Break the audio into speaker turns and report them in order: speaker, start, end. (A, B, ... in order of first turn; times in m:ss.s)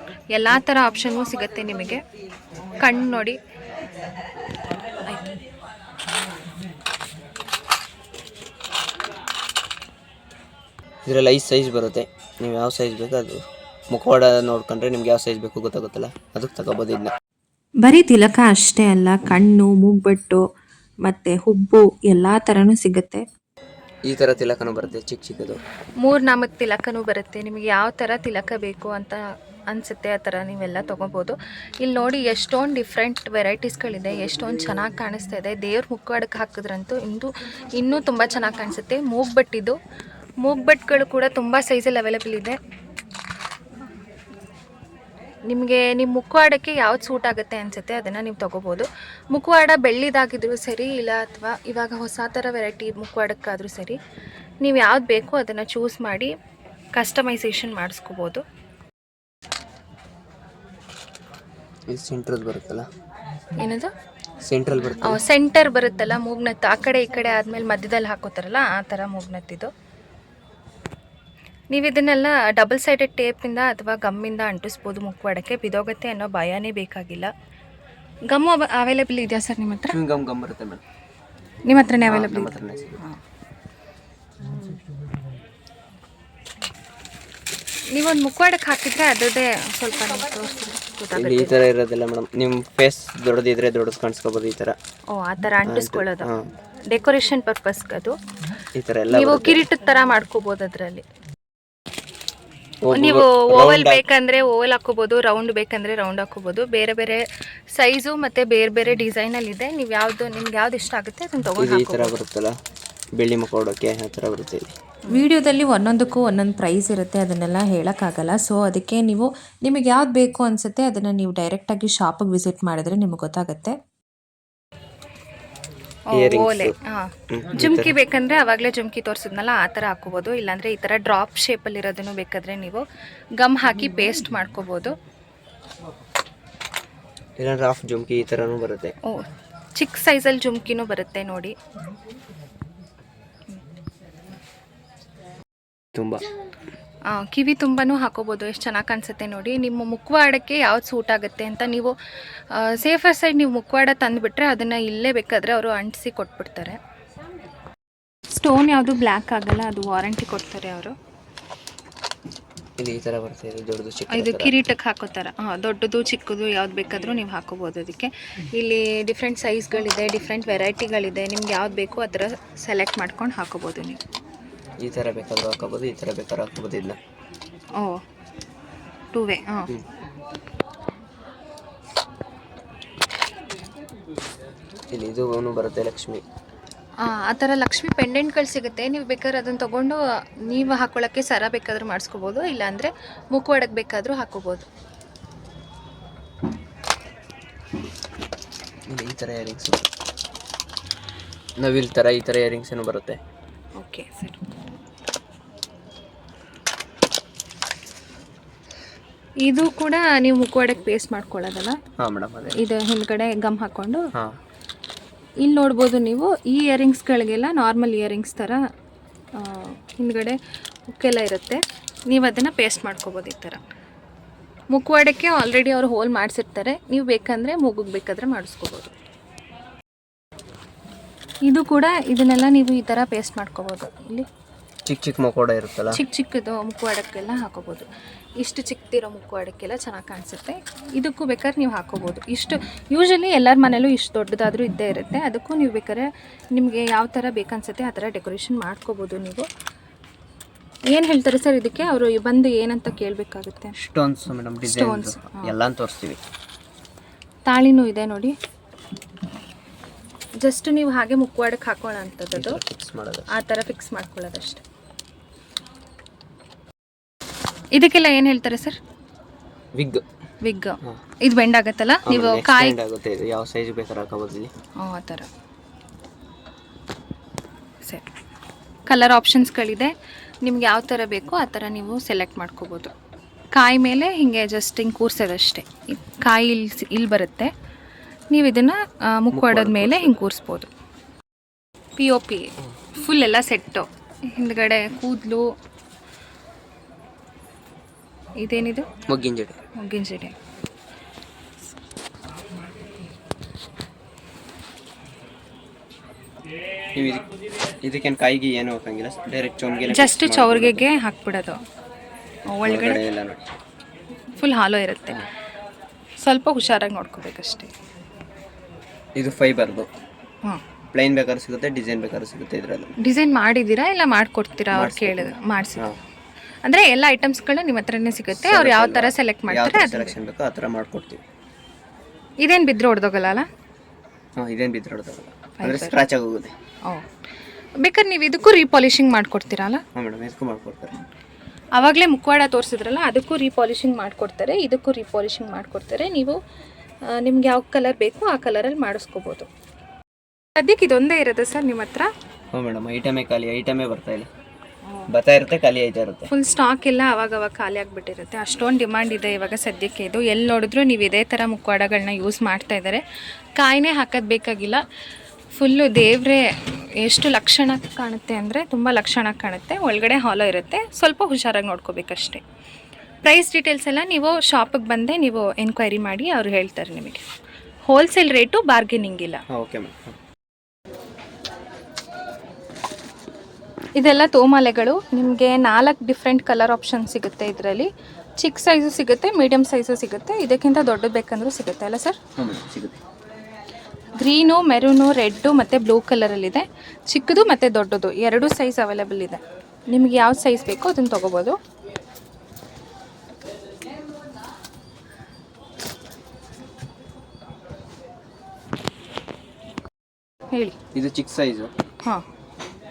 0:00.3-0:02.0 A
0:02.8-0:03.4 A
0:11.1-0:17.1 B
0:17.8-0:20.4 C
0:21.0-0:23.2 C
0:24.1-0:25.6 B
0:26.0-0:39.8 A
0:40.4-0:42.6 A
0:45.5-0:54.0 A
0:54.6-0:56.3 A
0:56.9-0:58.4 A
1:01.9-1:02.9 B
1:03.6-1:03.9 A
1:04.4-1:05.2 B
1:05.0-1:09.7 A
1:11.7-1:17.3 A
1:18.3-1:20.0 A
1:19.9-1:20.8 B
1:21.7-1:23.2 A
1:22.0-1:23.0 B
1:27.9-1:31.6 A
1:31.1-1:34.8 B
1:35.1-1:36.3 A
1:35.6-1:36.5 B
1:36.9-1:38.2 A
1:38.7-1:39.7 B
1:39.1-1:41.0 A
1:42.8-1:44.0 B
1:42.9-1:52.2 A
1:51.6-1:52.6 B
1:53.2-1:54.8 B
1:55.1-2:03.8 C
2:06.1-2:12.9 A
2:06.1-2:06.8 B
2:07.3-2:08.0 B
2:13.4-2:15.0 A
2:17.4-2:19.0 B
2:19.0-2:21.6 A
2:25.9-2:26.3 B
2:27.1-2:32.0 A
2:32.5-2:36.8 A
2:38.3-2:41.0 A
2:42.8-2:44.6 B
2:44.1-2:54.0 A
2:54.8-2:57.0 B
2:57.8-2:58.0 A
2:59.1-2:59.7 A
3:04.9-3:06.2 B
3:07.0-3:14.7 A
3:18.9-3:19.9 B
3:21.6-3:23.2 B
3:23.8-3:24.5 A
3:29.4-3:31.8 A
3:32.0-3:32.6 B
3:32.6-3:34.1 A
3:35.4-3:38.6 A
3:39.4-3:43.6 A
3:44.7-3:48.9 A
3:51.4-3:54.3 A
3:54.9-3:56.0 B
3:55.9-3:57.9 A
3:58.4-4:09.5 A
4:10.9-4:13.8 A
4:13.8-4:16.2 B
4:14.6-4:15.5 A
4:17.5-4:18.3 A
4:20.4-4:22.6 A
4:22.3-4:23.3 B
4:23.3-4:24.6 A
4:27.8-4:28.8 A
4:29.8-4:30.0 B
4:30.4-4:32.8 A
4:32.1-4:34.5 B
4:34.8-4:35.3 A
4:38.9-4:42.9 A
4:43.5-4:47.5 A
4:48.3-4:50.7 A
4:49.3-4:50.2 B
4:52.0-4:55.5 A
4:58.4-4:58.9 A
4:59.1-4:59.6 B
4:59.8-5:00.4 A
5:06.9-5:07.3 B
5:07.8-5:10.9 B
5:09.9-5:11.6 A
5:12.5-5:13.0 A
5:12.6-5:13.5 B
5:14.4-5:15.2 A
5:16.2-5:17.7 A
5:19.2-5:19.9 B
5:20.9-5:22.9 B
5:23.0-5:25.9 A
5:24.7-5:26.0 B
5:26.6-5:30.2 A
5:28.3-5:31.2 B
5:32.4-5:33.5 A
5:34.4-5:36.5 B
5:35.6-5:36.0 A
5:37.8-5:39.8 A
5:40.0-5:41.0 B
5:41.8-5:46.4 A
5:47.0-5:49.5 A
5:50.6-5:52.1 A
5:52.5-5:54.3 B
5:55.1-5:56.3 B
5:56.3-6:03.0 A
6:03.6-6:04.8 A
6:05.5-6:12.4 A
6:13.2-6:17.2 A
6:17.8-6:19.4 A
6:19.5-6:20.2 B
6:24.0-6:32.2 A
6:32.4-6:33.0 B
6:34.2-6:41.6 A
6:50.9-6:51.7 B